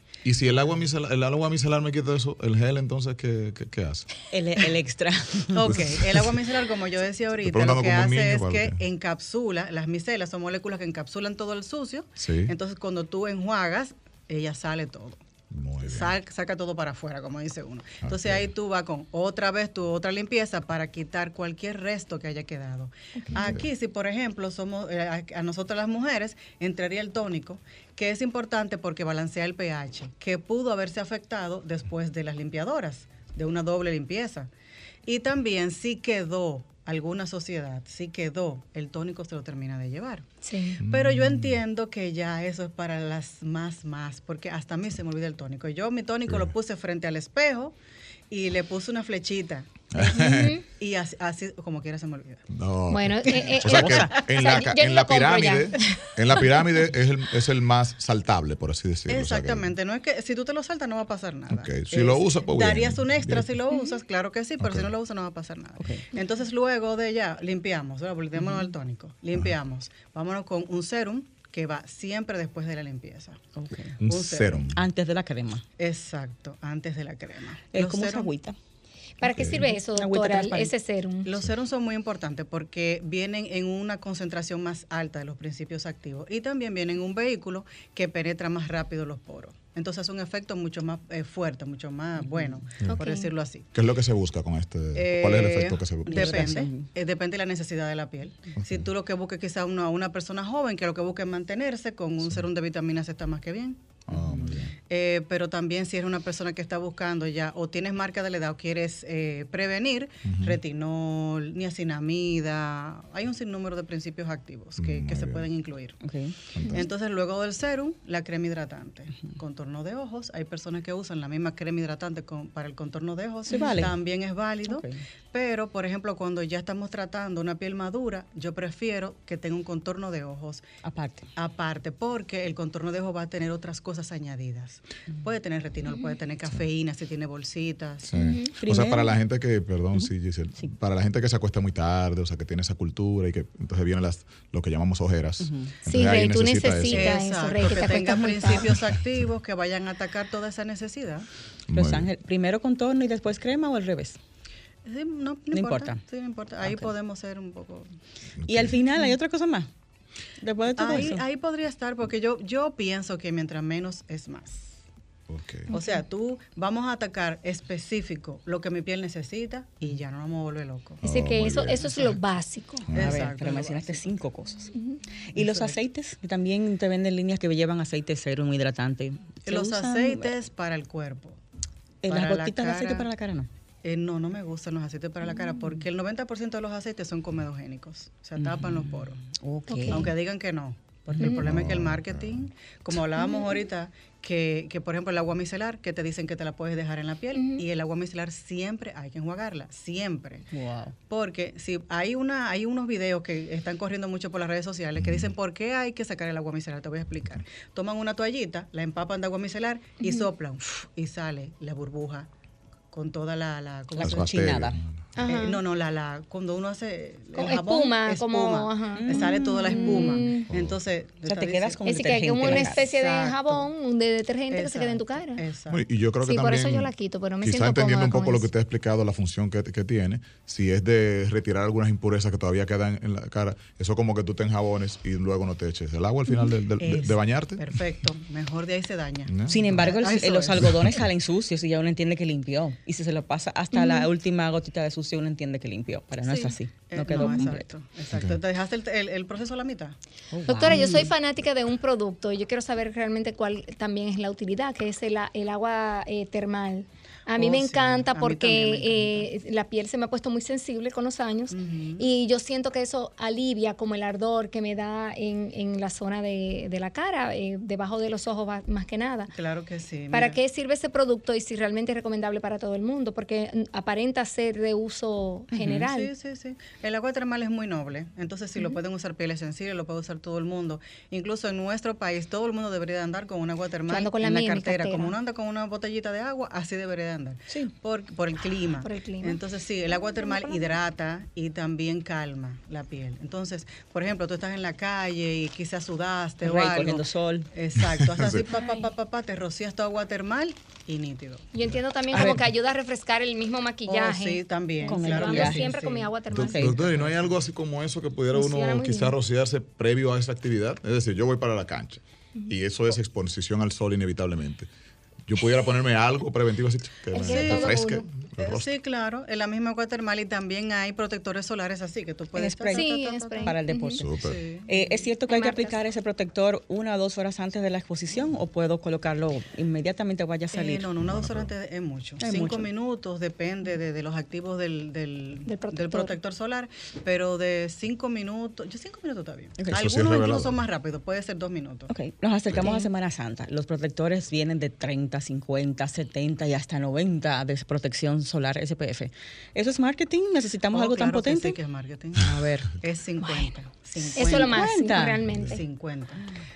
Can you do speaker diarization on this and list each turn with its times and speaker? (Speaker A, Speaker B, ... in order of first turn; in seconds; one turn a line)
Speaker A: 0.2-4.1
Speaker B: 4.3-5.8
Speaker C: 5.5-15.2
Speaker A: 5.7-6.4
Speaker A: 7.4-8.8
Speaker A: 12.2-12.5
Speaker A: 15.5-16.1
Speaker C: 15.8-34.5
Speaker A: 18.0-18.5
Speaker A: 23.3-23.7
Speaker C: 35.0-40.3
Speaker D: 40.4-40.8
Speaker A: 40.8-41.6
Speaker C: 40.8-47.7
Speaker C: 48.3-50.1
Speaker A: 49.9-50.6
Speaker D: 50.0-50.6
Speaker C: 50.8-52.5
Speaker A: 52.5-59.7
Speaker D: 52.9-56.0
Speaker B: 53.7-54.1
Speaker C: 59.1-73.4
Speaker A: 61.5-63.6
Speaker A: 64.6-64.9
Speaker B: 68.3-68.7
Speaker B: 73.5-74.0
Speaker A: 74.0-74.8
Speaker C: 74.0-74.7
Speaker B: 74.7-75.6
Speaker C: 75.8-78.3
Speaker B: 77.7-78.5
Speaker D: 79.2-81.3
Speaker A: 79.3-79.7
Speaker B: 79.9-80.7
Speaker C: 81.2-93.7
Speaker B: 92.2-92.6
Speaker D: 92.9-93.3
Speaker A: 93.7-96.5
Speaker C: 94.9-103.8
Speaker B: 96.1-96.9
Speaker A: 98.6-98.9
Speaker A: 104.1-104.7
Speaker B: 104.2-104.5
Speaker C: 104.9-116.0
Speaker A: 110.2-110.6
Speaker A: 114.8-115.5
Speaker B: 116.0-116.3
Speaker A: 116.5-116.8
Speaker C: 116.7-130.6
Speaker B: 123.5-124.0
Speaker B: 124.7-125.0
Speaker B: 130.8-131.3
Speaker C: 131.3-138.1
Speaker A: 138.1-147.2
Speaker D: 138.2-138.5
Speaker B: 138.6-139.2
Speaker B: 145.4-145.7
Speaker D: 145.9-148.7
Speaker C: 146.9-151.3
Speaker A: 151.7-152.1
Speaker B: 151.7-154.2
Speaker C: 154.8-157.9
Speaker B: 155.5-156.0
Speaker B: 156.6-156.9
Speaker A: 158.4-158.8
Speaker B: 158.5-159.7
Speaker B: 160.4-161.2
Speaker C: 160.8-164.8
Speaker A: 165.3-165.7
Speaker C: 165.7-171.0
Speaker D: 165.7-166.0
Speaker A: 171.0-172.2
Speaker D: 171.0-172.9
Speaker A: 172.9-173.2
Speaker C: 172.9-174.1
Speaker B: 172.9-174.7
Speaker B: 175.3-180.3
Speaker C: 175.3-175.8
Speaker C: 179.4-181.4
Speaker B: 182.0-183.5
Speaker C: 182.1-183.1
Speaker C: 183.8-189.2
Speaker B: 188.4-190.1
Speaker D: 189.7-190.1
Speaker C: 189.9-200.5
Speaker B: 191.1-191.4
Speaker A: 191.4-192.5
Speaker D: 193.2-193.5
Speaker D: 197.3-197.6
Speaker B: 200.5-200.9
Speaker C: 201.1-212.3
Speaker A: 205.0-205.3
Speaker D: 210.0-210.2
Speaker C: 212.9-214.6
Speaker B: 213.9-214.8
Speaker A: 214.0-214.9
Speaker D: 215.2-215.6
Speaker C: 215.2-221.8
Speaker D: 217.3-220.5
Speaker B: 218.9-220.2
Speaker A: 220.5-220.8
Speaker B: 221.2-222.8
Speaker D: 221.8-225.4
Speaker C: 222.4-223.7
Speaker C: 224.5-225.8
Speaker A: 225.7-237.8
Speaker D: 226.2-228.5
Speaker C: 236.8-241.0
Speaker A: 239.3-239.9
Speaker B: 239.5-247.7
Speaker A: 240.6-241.0
Speaker D: 243.7-244.1
Speaker C: 246.3-249.9
Speaker A: 248.1-248.4
Speaker B: 250.3-251.1
Speaker D: 250.5-269.3
Speaker C: 250.7-251.0
Speaker C: 257.3-259.3
Speaker C: 261.5-262.1
Speaker C: 269.3-270.4
Speaker D: 270.1-276.1
Speaker B: 275.5-275.8
Speaker C: 275.9-301.5
Speaker D: 283.9-285.1
Speaker D: 288.8-290.7
Speaker B: 296.4-297.5
Speaker A: 297.8-298.4
Speaker D: 298.5-298.9
Speaker D: 301.5-306.7
Speaker B: 302.1-302.4
Speaker C: 303.9-306.1
Speaker B: 304.8-305.7
Speaker A: 306.3-314.7
Speaker B: 306.3-306.9
Speaker C: 306.6-307.3
Speaker D: 308.3-309.1
Speaker A: 315.3-318.7
Speaker D: 317.1-318.0
Speaker C: 317.2-317.9
Speaker C: 318.4-323.6
Speaker B: 322.4-322.9
Speaker D: 322.7-324.0
Speaker B: 323.4-324.1
Speaker A: 324.0-324.4
Speaker C: 324.2-324.9
Speaker B: 324.7-330.9
Speaker D: 325.3-325.8
Speaker C: 330.5-341.9
Speaker A: 331.0-331.5
Speaker B: 332.2-332.7
Speaker D: 335.5-336.1
Speaker A: 339.7-340.6
Speaker B: 341.9-351.6
Speaker D: 342.6-342.9
Speaker C: 350.7-354.8
Speaker B: 352.2-352.8
Speaker B: 354.1-355.2
Speaker D: 354.1-355.6
Speaker A: 355.3-355.5
Speaker C: 355.4-356.3